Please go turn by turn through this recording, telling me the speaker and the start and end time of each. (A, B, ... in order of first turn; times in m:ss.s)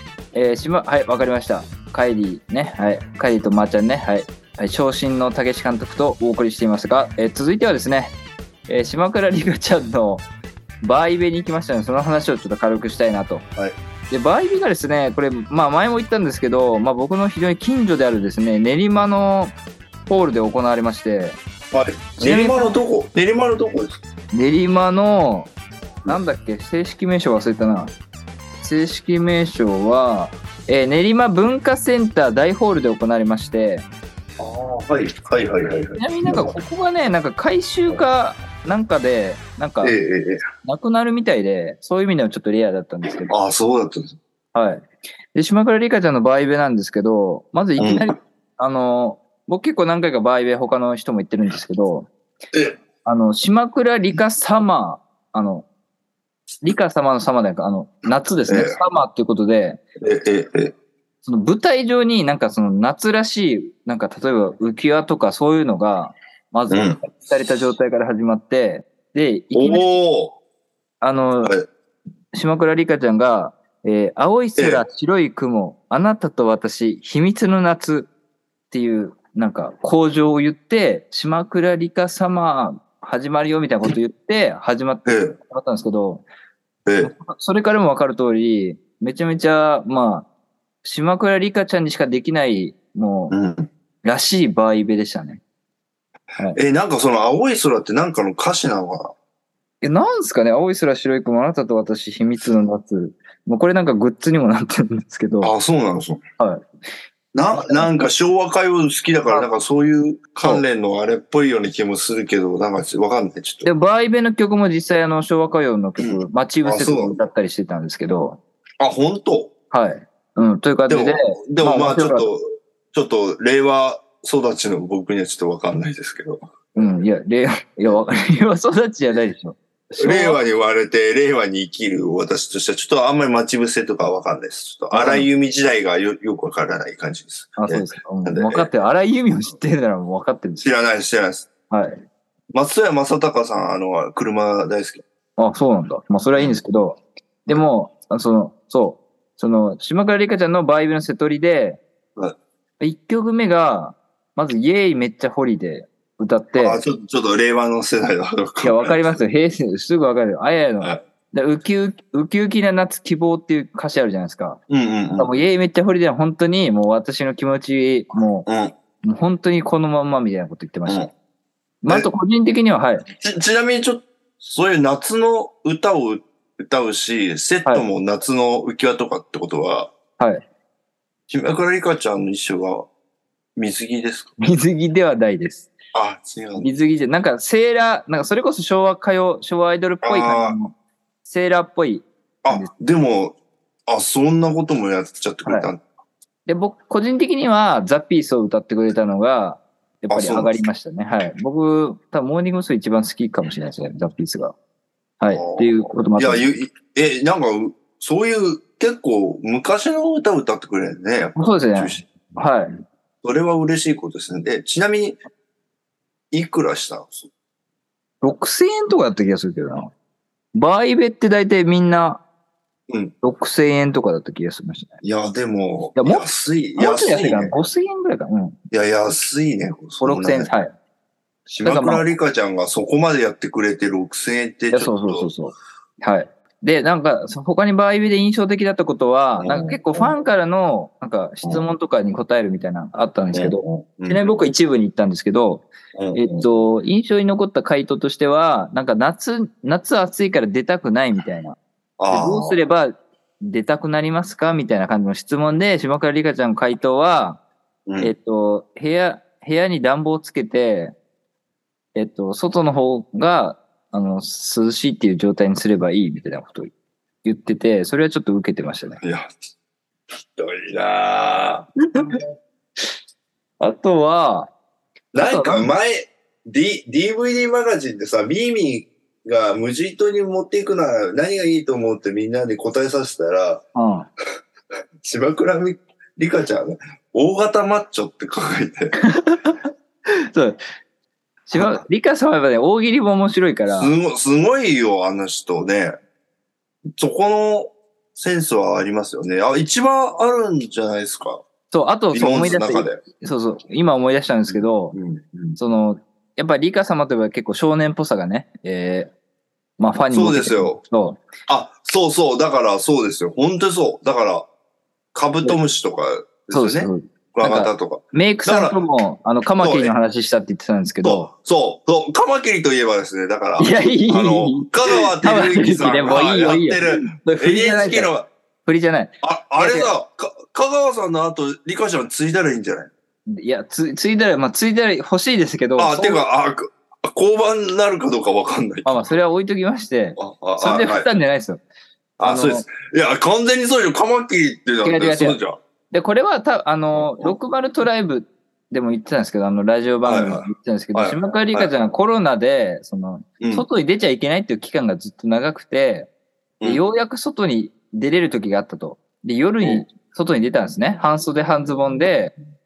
0:00.3-0:08.1 A
0:08.7-0:10.3 A
0:10.8-0:13.4 A
0:14.1-0:19.6 A
0:20.1-0:21.4 A
0:21.7-0:24.0 B
0:22.2-0:22.8 A
0:24.3-0:25.5 A
0:26.1-0:27.9 A
0:28.6-0:33.9 A
0:34.4-0:36.5 B
0:36.0-0:40.0 A
0:39.8-0:40.4 B
0:40.6-0:43.3 A
0:43.3-0:44.2 B
0:44.5-0:52.1 A
0:47.8-0:48.1 B
0:53.0-0:55.7 A
0:56.6-0:59.8 A
0:58.5-0:58.8 B
1:00.0-1:00.8 B
1:01.2-1:10.0 A
1:06.7-1:07.0 B
1:09.5-1:10.4 B
1:11.0-1:11.6 A
1:12.3-1:18.1 A
1:14.6-1:14.8 B
1:18.7-1:26.3 A
1:25.1-1:25.4 B
1:26.9-1:27.1 B
1:27.0-1:30.3 A
1:30.8-1:33.4 A
1:33.3-1:33.7 B
1:34.0-1:35.4 A
1:36.5-1:39.2 B
1:39.8-1:45.5 A
1:45.4-1:46.2 B
1:46.4-1:46.7 A
1:47.3-1:53.7 B
1:47.5-1:48.0 A
1:53.6-1:58.4 A
1:56.0-1:57.2 B
1:58.8-1:59.5 B
1:59.7-2:02.3 A
2:00.9-2:06.9 B
2:06.8-2:10.4 A
2:10.0-2:18.7 B
2:14.9-2:15.3 A
2:17.6-2:20.7 A
2:20.6-2:21.5 B
2:21.7-2:22.0 A
2:22.5-2:25.0 B
2:25.4-2:31.8 A
2:32.8-2:36.8 A
2:36.6-2:39.2 B
2:38.6-2:44.6 A
2:44.7-2:45.3 B
2:45.2-2:48.5 A
2:48.5-2:48.7 B
2:49.0-2:51.1 A
2:51.8-2:53.1 A
2:53.2-2:59.9 B
3:00.2-3:00.4 A
3:01.3-3:02.9 B
3:03.6-3:04.4 B
3:04.4-3:05.7 A
3:05.9-3:06.7 B
3:06.6-3:10.7 A
3:10.0-3:10.6 B
3:11.2-3:12.7 A
3:12.4-3:15.8 B
3:15.5-3:15.7 A
3:16.5-3:24.6 A
3:20.1-3:20.6 B
3:25.2-3:26.6 A
3:25.3-3:32.1 B
3:31.4-3:32.7 A
3:33.2-3:35.2 B
3:36.3-3:37.3 B
3:38.2-3:39.9 A
3:40.5-3:42.2 A
3:43.2-3:45.0 A
3:45.0-3:47.5 B
3:46.0-3:46.3 A
3:46.8-3:48.6 A
3:48.7-3:50.5 B
3:50.0-3:50.7 A
3:51.5-3:55.3 B
3:51.6-3:52.0 A
3:54.7-4:11.6 A
3:59.4-4:00.1 B
4:03.3-4:04.2 B
4:06.0-4:06.5 B
4:12.0-4:12.6 B
4:12.1-4:17.4 A
4:17.9-4:18.1 B
4:18.0-4:21.0 A
4:22.0-4:26.7 A
4:27.2-4:29.0 A
4:29.0-4:29.3 B
4:30.4-4:32.2 B
4:33.6-4:34.5 A
4:35.1-4:43.7 B
4:35.2-4:35.7 A
4:43.8-4:44.1 A
4:45.0-4:49.0 B
4:49.0-4:49.7 A
4:50.3-4:50.6 A
4:51.5-4:53.9 A
4:51.6-4:51.8 B
4:53.7-4:56.0 B
4:57.0-5:01.4 B
5:01.7-5:05.0 A
5:02.1-5:03.0 B
5:04.5-5:05.6 B
5:05.6-5:09.1 A
5:09.8-5:11.2 A
5:10.1-5:10.8 B
5:11.5-5:14.5 B
5:15.1-5:18.8 B
5:16.5-5:21.3 A
5:19.6-5:19.9 B
5:21.0-5:28.3 B
5:23.6-5:28.1 A
5:28.7-5:30.0 A
5:29.2-5:32.9 B
5:33.3-5:36.2 A
5:35.8-5:39.2 B
5:38.8-5:41.6 A
5:40.2-5:41.1 B
5:42.2-5:45.6 B
5:42.2-5:42.7 A
5:44.8-5:45.4 A
5:45.9-5:56.1 A
5:46.9-5:47.4 B
5:50.0-5:51.7 B
5:53.4-5:53.7 B
5:56.6-6:02.3 A